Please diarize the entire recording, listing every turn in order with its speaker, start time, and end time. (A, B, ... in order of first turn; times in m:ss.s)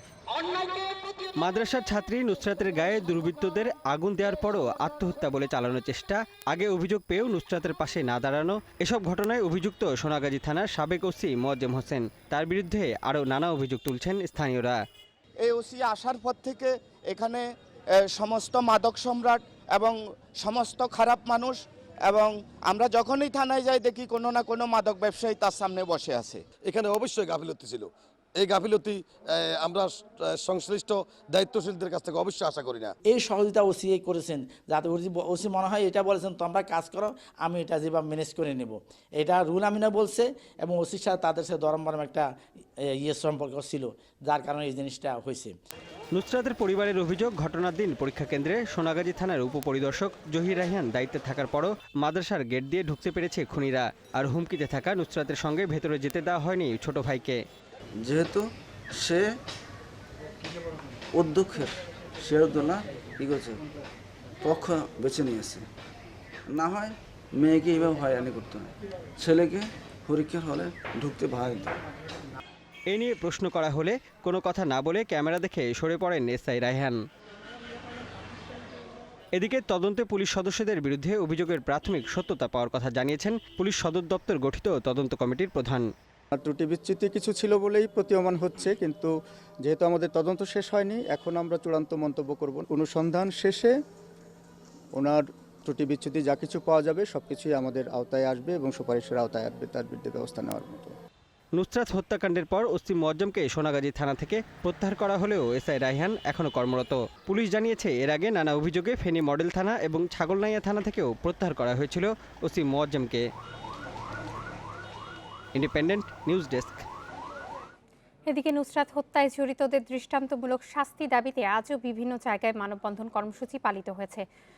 0:01.4-0:14.8 A
0:15.4-0:17.4 B
0:18.1-0:26.4 B
0:26.6-0:32.9 C
0:33.0-0:42.3 D
0:42.9-0:45.6 D
0:46.1-0:57.4 A
0:58.0-0:58.4 E
1:01.2-1:03.6 E
1:04.4-1:05.7 E
1:06.5-1:11.7 E
1:12.9-1:17.0 A
1:19.3-1:25.9 A
1:26.3-1:29.1 F
1:29.6-1:33.8 F
1:35.0-1:40.9 F
1:41.5-1:53.2 A
1:55.5-1:56.8 A
1:58.3-2:04.2 G